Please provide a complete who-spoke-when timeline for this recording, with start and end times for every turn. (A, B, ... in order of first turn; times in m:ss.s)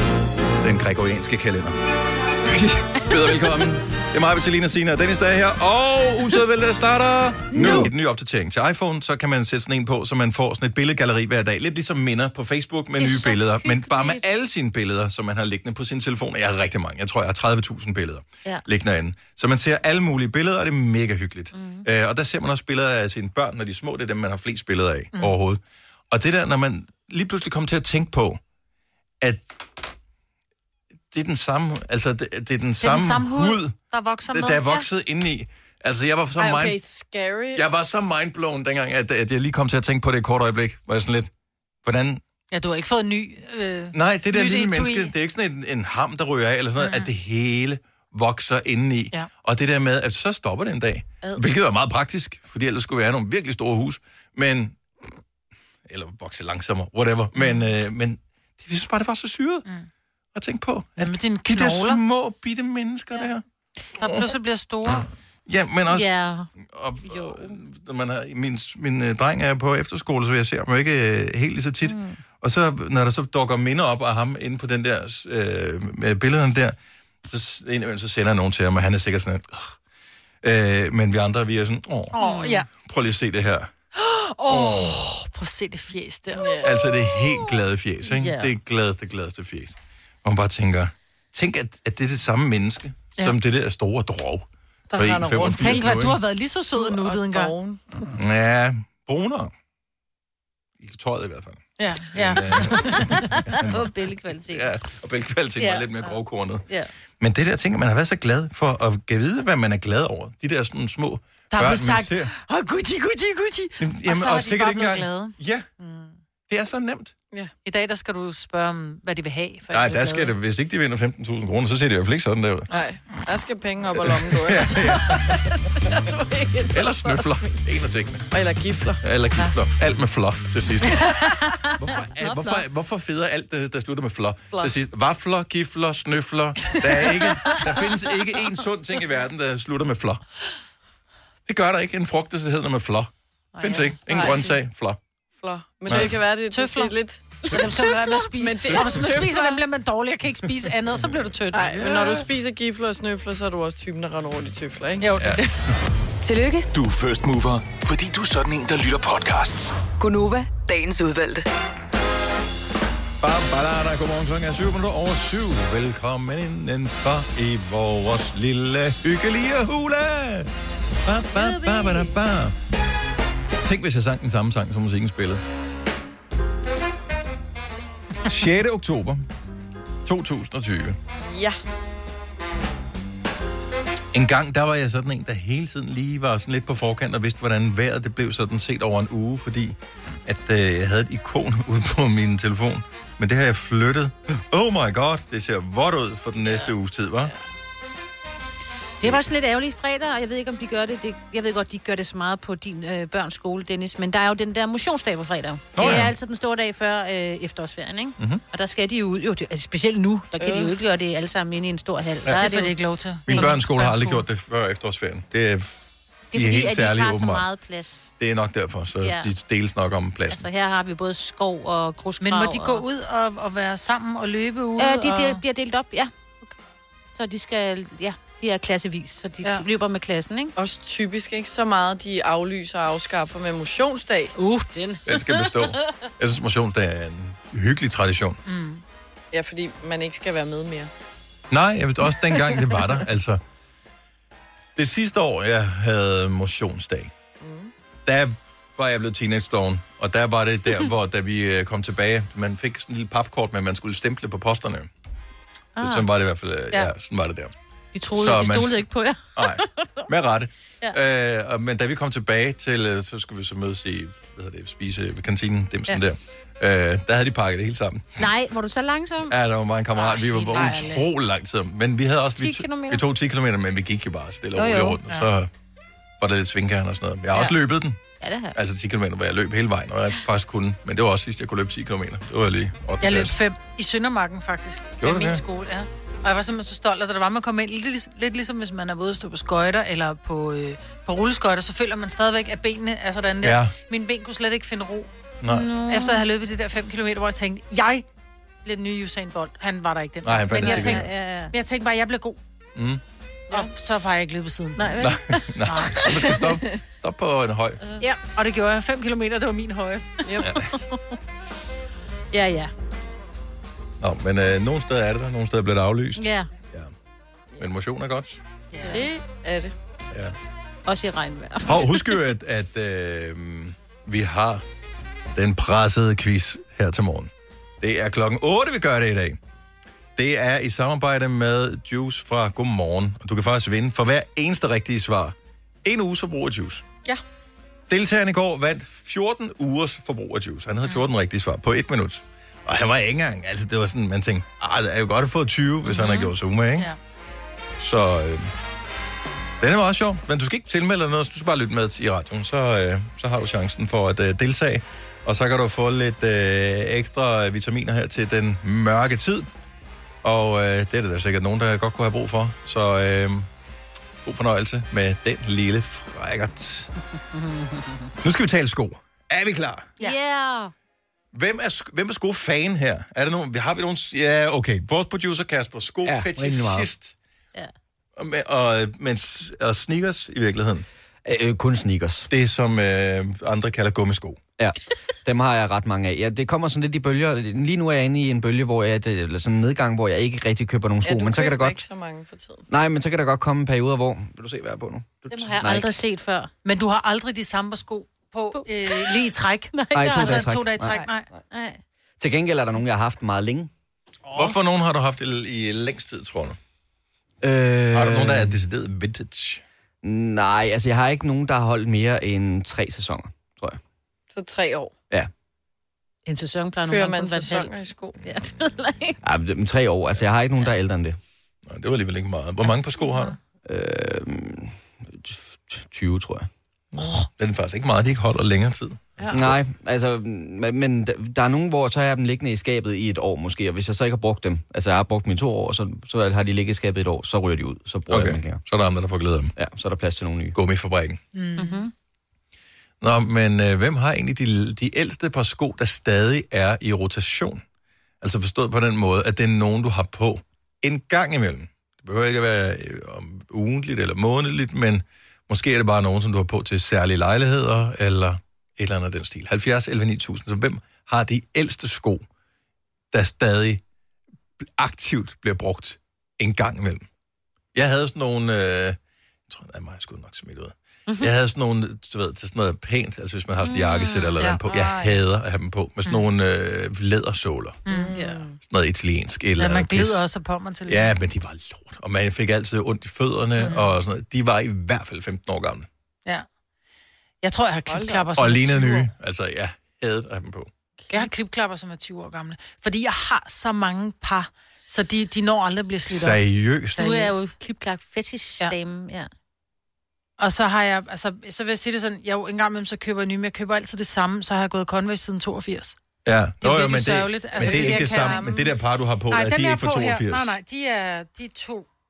0:00.6-0:01.8 A
0:02.4-0:28.4 A
0:07.5-0:07.9 B
0:13.0-0:14.2 B
0:21.5-0:21.8 B
0:29.2-0:29.6 A
0:31.1-0:33.7 A
0:32.8-0:34.8 C
0:34.3-0:36.8 A
0:36.4-0:37.7 D
0:37.5-0:41.3 A
0:41.8-0:42.2 A
0:42.5-0:45.1 C
0:43.9-0:54.8 A
0:55.8-0:59.6 A
1:00.3-1:03.4 A
1:01.0-1:02.0 C
1:04.0-1:05.1 C
1:04.0-1:04.3 A
1:04.9-1:19.8 A
1:05.9-1:06.5 B
1:07.1-1:07.5 B
1:11.8-1:12.2 B
1:20.4-1:22.1 A
1:22.1-1:22.7 C
1:22.2-1:22.6 B
1:22.8-1:23.7 A
1:23.9-1:26.7 C
1:24.5-1:25.1 A
1:26.3-1:26.8 D
1:26.6-1:36.2 A
1:28.2-1:28.4 B
1:34.9-1:36.0 D
1:35.3-1:37.6 C
1:36.7-1:37.8 D
1:38.1-1:39.5 A
1:40.8-1:43.9 A
1:41.8-1:43.1 C
1:42.9-1:44.7 B
1:44.5-1:46.6 A
1:47.2-1:52.3 A
1:51.5-1:56.1 C
1:53.8-1:55.7 A
1:56.5-1:57.1 A
1:57.6-2:00.3 C
1:59.7-2:02.6 A
2:02.7-2:07.6 D
2:04.0-2:05.4 A
2:06.7-2:08.3 A
2:08.3-2:09.5 D
2:09.0-2:11.1 A
2:11.3-2:12.6 B
2:11.8-2:20.2 A
2:21.4-2:25.0 A
2:23.6-2:24.4 C
2:24.1-2:24.5 D
2:25.4-2:29.6 D
2:25.9-2:31.8 C
2:31.5-2:35.1 D
2:31.6-2:32.3 A
2:35.0-2:35.6 C
2:36.2-2:36.7 E
2:36.7-2:39.7 F
2:40.0-2:41.4 E
2:43.2-2:50.5 A
2:51.0-2:52.6 A
2:51.6-2:51.9 C
2:53.6-2:55.4 A
2:58.2-2:59.3 A
3:00.0-3:01.0 A
3:01.2-3:01.6 D
3:04.1-3:17.3 A
3:19.0-3:32.7 B
3:25.7-3:26.1 A
3:32.3-3:34.2 C
3:33.3-3:35.7 A
3:36.3-3:37.4 A
3:36.3-3:38.1 B
3:38.2-3:40.4 A
3:39.0-3:39.3 B
3:40.3-3:42.8 B
3:42.2-3:45.4 C
3:44.8-3:46.1 B
3:47.1-3:50.5 B
3:50.6-3:54.3 D
3:54.3-3:55.8 B
3:55.1-3:58.4 A
3:58.4-3:58.8 C
3:59.3-4:00.9 D
4:01.5-4:03.4 A
4:04.8-4:07.1 A
4:07.4-4:07.7 D
4:08.0-4:14.9 A
4:15.8-4:16.0 B
4:15.8-4:17.5 A
4:17.9-4:20.1 B
4:18.1-4:18.8 A
4:19.4-4:28.3 A
4:28.2-4:29.3 B
4:29.3-4:35.5 A
4:30.0-4:30.8 B
4:30.5-4:31.0 C
4:30.5-4:30.8 D
4:32.4-4:33.0 B
4:34.6-4:35.0 B
4:36.2-4:38.0 A
4:38.2-4:38.6 B
4:38.5-4:43.4 A
4:43.0-4:55.1 C
4:45.0-4:45.4 A
4:53.4-4:53.7 A
4:55.4-4:55.7 A
4:55.5-4:56.2 B
4:55.9-4:58.0 C
4:58.6-5:02.4 C
5:00.2-5:01.1 A
5:00.6-5:01.5 B
5:02.8-5:03.0 A
5:03.5-5:05.1 C
5:04.8-5:05.4 B
5:05.0-5:07.8 A
5:05.6-5:06.2 C
5:06.3-5:06.8 D
5:08.0-5:10.2 C
5:10.2-5:10.5 D
5:10.5-5:10.8 B
5:12.3-5:12.7 B
5:14.0-5:16.9 A
5:16.2-5:16.5 B
5:17.6-5:18.4 A
5:18.7-5:19.0 C
5:18.9-5:19.7 D
5:20.8-5:22.2 B
5:21.6-5:24.6 A
5:25.3-5:29.4 A
5:30.2-5:36.9 A
5:37.9-5:46.9 A
5:46.0-5:46.3 B
5:47.8-5:48.5 A
5:49.6-5:59.5 A
6:00.2-6:03.5 A
6:04.2-6:06.9 A
6:07.3-6:08.1 B
6:08.2-6:09.9 A
6:10.0-6:10.7 B
6:11.3-6:17.1 A
6:16.0-6:16.9 G
6:18.2-6:20.8 A
6:21.2-6:22.3 G
6:22.3-6:24.4 A
6:24.6-6:31.8 G
6:31.0-6:32.6 D
6:32.7-6:36.0 G
6:35.3-6:36.5 B
6:36.6-6:41.3 C
6:38.5-6:39.1 B
6:39.7-6:40.5 B
6:39.9-6:41.4 G
6:41.5-6:41.8 B
6:42.2-6:43.7 G
6:44.3-6:46.6 A
6:47.4-6:48.6 G
6:47.9-6:49.6 A
6:50.0-6:53.8 G
6:54.3-6:54.9 D
6:56.2-6:59.2 B
6:56.9-6:58.2 D
6:59.2-7:01.2 G
7:01.6-7:03.3 A
7:03.6-7:06.5 G
7:06.9-7:09.6 A
7:09.3-7:18.6 G
7:18.1-7:19.5 A
7:19.6-7:20.6 G
7:20.5-7:21.2 A
7:21.3-7:21.9 C
7:21.6-7:21.9 B
7:23.0-7:27.6 A
7:28.2-7:42.2 A
7:43.1-7:43.8 A
7:44.8-7:47.1 A
7:47.7-7:49.0 A
7:49.5-7:57.8 A
7:53.6-7:54.6 B
7:54.7-7:55.1 D
7:57.8-7:58.2 C
7:57.9-7:58.6 D
7:58.1-7:58.4 B
7:58.7-8:00.2 A
7:59.6-8:01.1 C
8:00.9-8:05.9 A
8:03.6-8:03.8 C
8:07.4-8:09.1 C
8:07.9-8:08.3 D
8:08.3-8:10.7 A
8:11.1-8:16.4 C
8:16.1-8:17.0 A
8:16.9-8:17.5 C
8:17.0-8:19.3 B
8:20.4-8:25.9 C
8:26.2-8:30.5 A
8:26.6-8:28.6 C
8:27.6-8:28.3 D
8:29.3-8:31.8 C